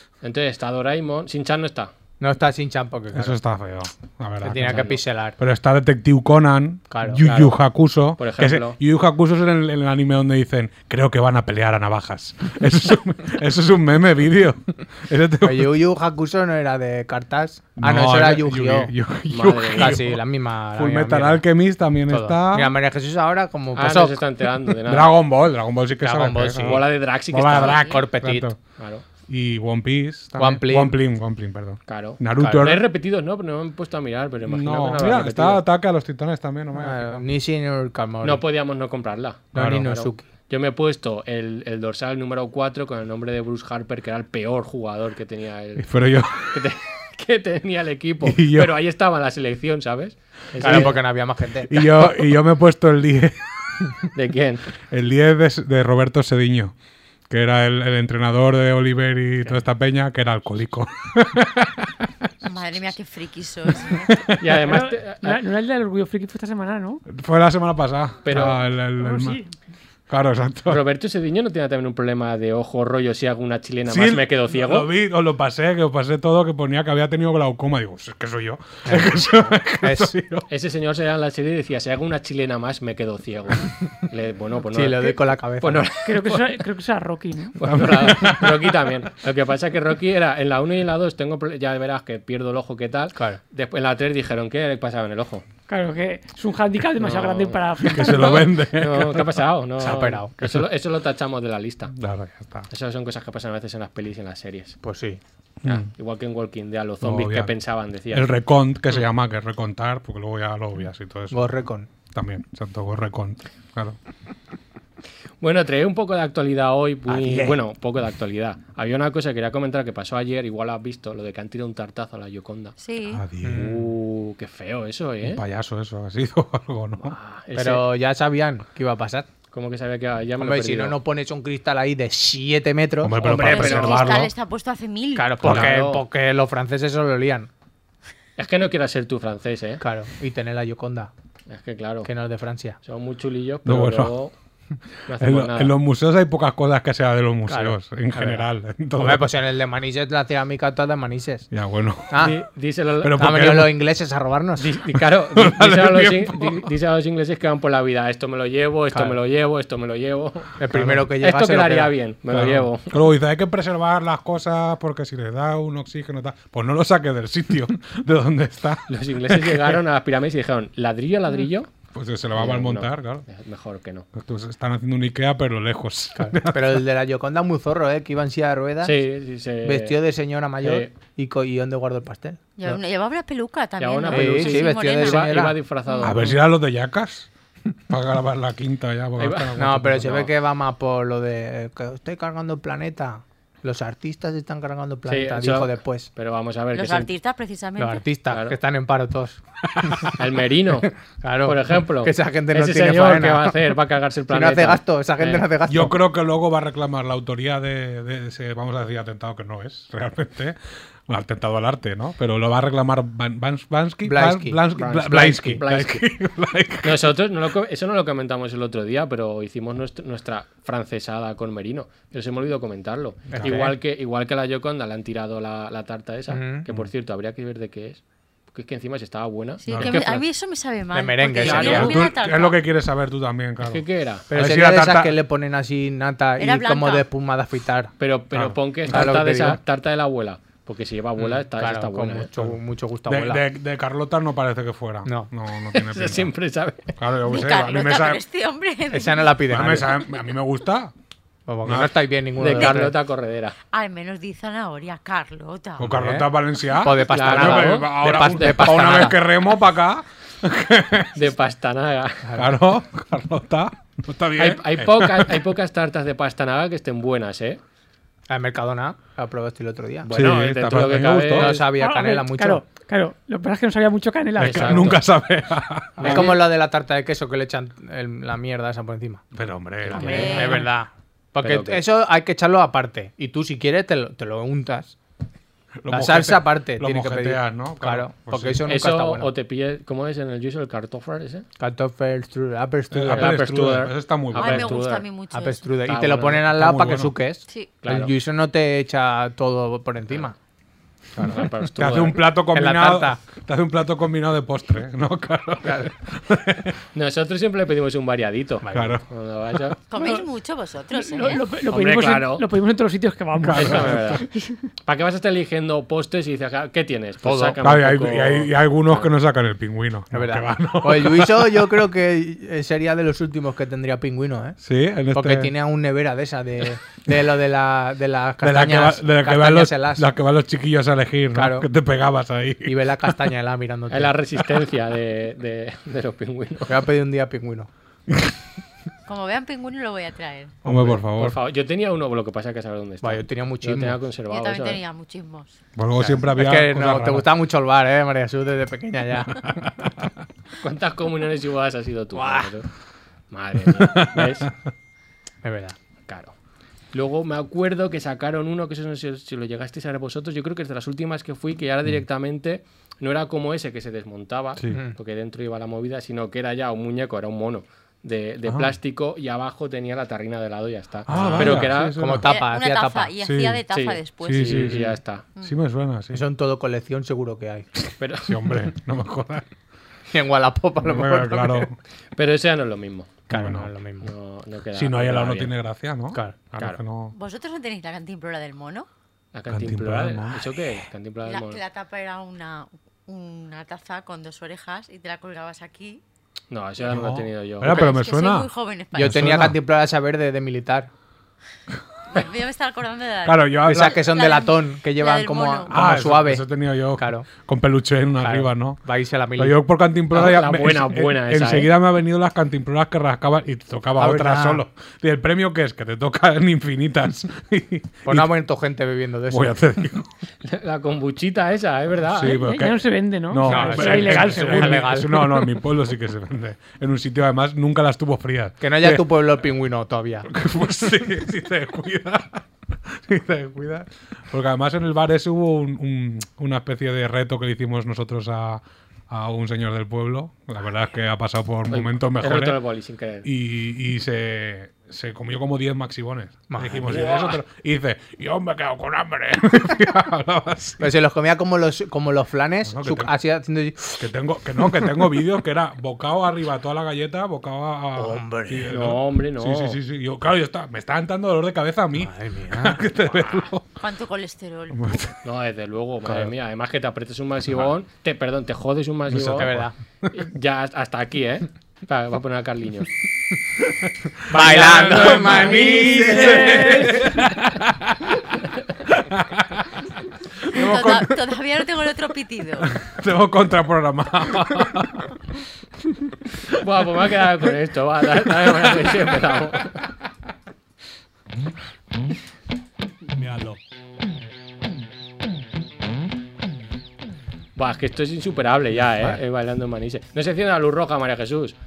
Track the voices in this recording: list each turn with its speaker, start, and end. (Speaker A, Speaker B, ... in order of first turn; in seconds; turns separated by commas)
Speaker A: 0.2-1.9, Speaker B: 2.2-3.4, Speaker C: 3.1-15.7, Speaker B: 4.4-5.4, Speaker A: 4.6-5.0, Speaker B: 6.9-7.2, Speaker A: 7.2-7.6, Speaker A: 8.2-8.8, Speaker B: 15.4-18.9, Speaker C: 17.8-22.8, Speaker A: 19.3-20.0, Speaker B: 19.7-21.4, Speaker B: 22.1-24.2, Speaker A: 23.7-25.1, Speaker C: 24.9-28.6, Speaker B: 26.0-26.9, Speaker A: 26.6-27.9, Speaker D: 27.5-27.9, Speaker B: 27.9-28.5, Speaker A: 28.8-29.0, Speaker C: 29.3-32.9, Speaker B: 30.3-31.0, Speaker A: 31.9-35.6, Speaker B: 32.4-32.8, Speaker C: 34.4-37.2, Speaker B: 36.7-38.4, Speaker A: 38.2-45.9, Speaker C: 39.5-39.9, Speaker B: 39.5-40.3, Speaker C: 45.8-46.6, Speaker A: 46.4-51.0, Speaker C: 48.2-48.8, Speaker B: 50.6-52.2, Speaker C: 50.6-51.0, Speaker C: 51.7-53.4, Speaker A: 54.1-54.7, Speaker C: 54.8-56.7, Speaker C: 57.3-61.9, Speaker D: 62.4-64.1, Speaker C: 63.9-64.4, Speaker A: 64.4-65.4, Speaker E: 64.6-67.0, Speaker C: 67.1-69.4, Speaker A: 68.2-68.6, Speaker E: 69.0-69.5, Speaker C: 70.1-70.8, Speaker A: 70.7-74.9, Speaker C: 73.9-80.4, Speaker B: 78.8-80.2, Speaker A: 80.5-86.5, Speaker B: 84.7-85.8, Speaker E: 86.0-87.5, Speaker A: 87.6-95.4, Speaker C: 87.7-88.7, Speaker B: 93.1-93.4, Speaker E: 95.7-98.5, Speaker A: 97.0-101.9, Speaker C: 97.9-99.3, Speaker B: 99.8-100.3, Speaker C: 101.9-102.7, Speaker A: 102.7-104.8, Speaker B: 104.8-105.2, Speaker A: 105.6-108.3, Speaker C: 107.0-107.5, Speaker C: 108.1-111.4, Speaker B: 111.3-111.9, Speaker C: 112.0-114.0, Speaker A: 115.4-122.8, Speaker B: 117.1-117.6, Speaker D: 122.8-123.2, Speaker C: 123.0-123.9, Speaker B: 123.4-123.7, Speaker A: 123.5-125.4, Speaker C: 125.2-127.2, Speaker A: 127.0-127.9, Speaker B: 127.5-129.3, Speaker A: 129.5-130.9, Speaker B: 130.4-133.2, Speaker C: 133.0-134.3, Speaker A: 133.2-134.3, Speaker D: 133.4-135.5, Speaker B: 135.1-137.5, Speaker C: 135.4-135.7, Speaker A: 135.4-136.0, Speaker A: 138.4-139.8, Speaker B: 139.8-141.1, Speaker A: 141.5-142.1, Speaker B: 142.0-142.8, Speaker A: 142.8-144.3, Speaker C: 143.7-144.1, Speaker A: 145.1-145.7, Speaker C: 145.1-149.3, Speaker B: 147.5-151.5, Speaker C: 151.5-152.3, Speaker B: 152.1-152.4, Speaker A: 152.2-153.3, Speaker C: 153.0-153.7, Speaker B: 153.1-154.7, Speaker A: 154.6-160.5, Speaker C: 155.3-156.7, Speaker B: 160.6-161.9, Speaker C: 160.7-161.0, Speaker A: 161.2-162.9, Speaker C: 162.3-169.8, Speaker A: 168.9-171.8, Speaker C: 171.9-173.2, Speaker A: 172.3-174.1, Speaker C: 174.1-176.8, Speaker B: 176.2-179.0, Speaker A: 178.8-180.0, Speaker B: 179.6-182.8, Speaker A: 180.6-180.9, Speaker D: 182.6-186.2, Speaker A: 183.8-186.4, Speaker B: 184.1-185.6, Speaker C: 186.0-187.3, Speaker C: 187.9-190.2, Speaker A: 189.2-189.6, Speaker B: 189.6-196.1, Speaker A: 195.1-197.1, Speaker D: 196.7-198.0, Speaker B: 197.8-200.1, Speaker A: 198.3-198.6, Speaker A: 200.2-205.5, Speaker B: 201.2-203.6, Speaker B: 204.3-205.9, Speaker C: 205.7-217.1, Speaker B: 214.0-215.6, Speaker A: 214.8-216.1, Speaker A: 216.8-228.0, Speaker B: 223.3-223.8, Speaker C: 223.3-223.7, Speaker B: 226.3-226.7, Speaker A: 228.5-230.2, Speaker D: 229.6-232.6, Speaker C: 229.7-230.1, Speaker B: 230.9-232.0, Speaker A: 231.3-232.0, Speaker C: 231.4-235.1, Speaker A: 233.6-234.2, Speaker B: 234.3-237.9, Speaker D: 236.4-237.0, Speaker A: 238.0-242.3, Speaker C: 238.3-239.2, Speaker B: 238.9-239.6, Speaker B: 241.2-243.4, Speaker C: 243.1-246.3, Speaker A: 245.7-246.9, Speaker C: 247.0-248.2, Speaker D: 247.2-249.8, Speaker B: 248.9-249.9, Speaker C: 249.5-250.9, Speaker B: 251.5-252.9, Speaker C: 251.6-251.9, Speaker A: 252.4-253.6, Speaker D: 253.7-255.9, Speaker C: 255.8-261.2, Speaker B: 255.8-259.2, Speaker A: 257.1-259.1, Speaker A: 261.1-262.3, Speaker B: 262.2-262.5, Speaker C: 262.4-265.3, Speaker A: 264.4-267.6, Speaker B: 268.3-270.1, Speaker A: 270.1-271.5, Speaker C: 270.1-271.6, Speaker B: 271.3-272.6, Speaker E: 271.7-274.9, Speaker C: 274.4-276.4, Speaker A: 274.4-275.0, Speaker B: 276.0-279.2, Speaker A: 276.0-276.3, Speaker C: 279.3-280.4, Speaker B: 279.9-284.9, Speaker D: 279.9-280.6, Speaker E: 280.0-280.7, Speaker A: 281.4-281.8, Speaker C: 285.8-288.7, Speaker B: 285.9-289.3, Speaker A: 288.6-291.4, Speaker B: 291.6-293.7, Speaker C: 292.9-294.8, Speaker A: 293.1-295.1, Speaker D: 294.3-295.6, Speaker B: 295.3-300.3, Speaker A: 295.9-296.4, Speaker C: 296.5-297.1, Speaker A: 297.8-298.1, Speaker C: 301.1-306.7, Speaker A: 301.2-302.2, Speaker B: 301.8-303.2, Speaker B: 305.6-305.9, Speaker A: 306.9-309.8, Speaker B: 308.6-309.0, Speaker C: 308.7-309.0, Speaker D: 309.9-311.4, Speaker E: 309.9-310.2, Speaker E: 310.9-314.6, Speaker A: 311.6-312.4, Speaker C: 313.4-314.2, Speaker A: 313.5-314.2, Speaker A: 314.8-319.1, Speaker B: 317.2-317.6, Speaker C: 317.6-321.6, Speaker B: 320.1-324.6, Speaker C: 324.6-325.5, Speaker B: 325.1-330.1, Speaker C: 328.4-333.1, Speaker B: 331.3-331.7, Speaker B: 332.6-334.1, Speaker A: 333.9-336.7, Speaker B: 336.7-337.7, Speaker D: 339.1-340.6, Speaker B: 340.6-341.3, Speaker C: 340.6-341.4, Speaker A: 341.2-344.8, Speaker B: 343.0-344.0, Speaker D: 344.3-345.6, Speaker C: 345.8-347.3, Speaker B: 346.0-349.5, Speaker C: 349.4-350.1, Speaker A: 350.6-352.7, Speaker B: 352.1-352.5, Speaker A: 353.3-354.5, Speaker C: 353.7-354.4, Speaker B: 355.4-355.8, Speaker A: 356.1-356.3, Speaker A: 356.9-372.1, Speaker C: 364.6-364.8, Speaker C: 371.1-372.3, Speaker B: 371.1-373.1, Speaker D: 372.2-374.8, Speaker C: 373.2-373.6, Speaker A: 373.7-375.2, Speaker C: 374.2-376.2, Speaker B: 376.1-377.7, Speaker A: 378.0-378.3, Speaker C: 378.2-379.4, Speaker B: 380.1-381.7, Speaker C: 380.8-381.8, Speaker A: 382.2-383.2, Speaker B: 383.3-384.1, Speaker C: 383.3-383.7, Speaker A: 384.0-385.5, Speaker C: 384.7-387.1, Speaker D: 387.1-388.9, Speaker A: 389.3-391.6, Speaker C: 389.5-390.5, Speaker D: 391.2-396.0, Speaker A: 396.5-397.7, Speaker C: 396.9-399.6, Speaker B: 397.6-397.9, Speaker D: 397.6-399.3, Speaker B: 398.9-400.9, Speaker D: 402.1-405.7, Speaker C: 403.2-404.1, Speaker B: 403.6-407.3, Speaker C: 405.7-408.8, Speaker B: 408.2-409.6, Speaker C: 409.4-418.3, Speaker A: 410.1-411.7, Speaker B: 414.0-414.6, Speaker B: 418.1-419.6, Speaker C: 419.3-420.1, Speaker A: 420.4-422.4, Speaker C: 422.1-429.1, Speaker E: 422.4-424.7, Speaker B: 423.4-425.4, Speaker B: 428.6-430.3, Speaker C: 430.3-442.6, Speaker A: 441.7-443.2, Speaker C: 443.2-450.8, Speaker B: 446.5-447.2, Speaker A: 446.9-447.4, Speaker B: 450.8-454.1, Speaker C: 452.7-453.1, Speaker C: 454.0-463.7, Speaker B: 454.6-455.1, Speaker B: 457.9-458.7, Speaker A: 458.7-459.8, Speaker B: 462.0-462.8, Speaker D: 463.8-464.9, Speaker C: 464.7-465.1, Speaker A: 465.2-469.6, Speaker B: 466.1-466.3, Speaker B: 469.1-469.7, Speaker C: 469.3-469.6, Speaker A: 470.1-472.9, Speaker C: 473.8-478.2, Speaker B: 474.3-477.0, Speaker A: 474.3-476.6, Speaker E: 476.4-476.8, Speaker C: 478.9-479.7, Speaker C: 480.4-481.2, Speaker D: 480.5-482.7, Speaker C: 482.6-485.1, Speaker A: 486.6-489.8, Speaker C: 488.5-488.9, Speaker C: 493.1-493.6, Speaker A: 497.6-501.5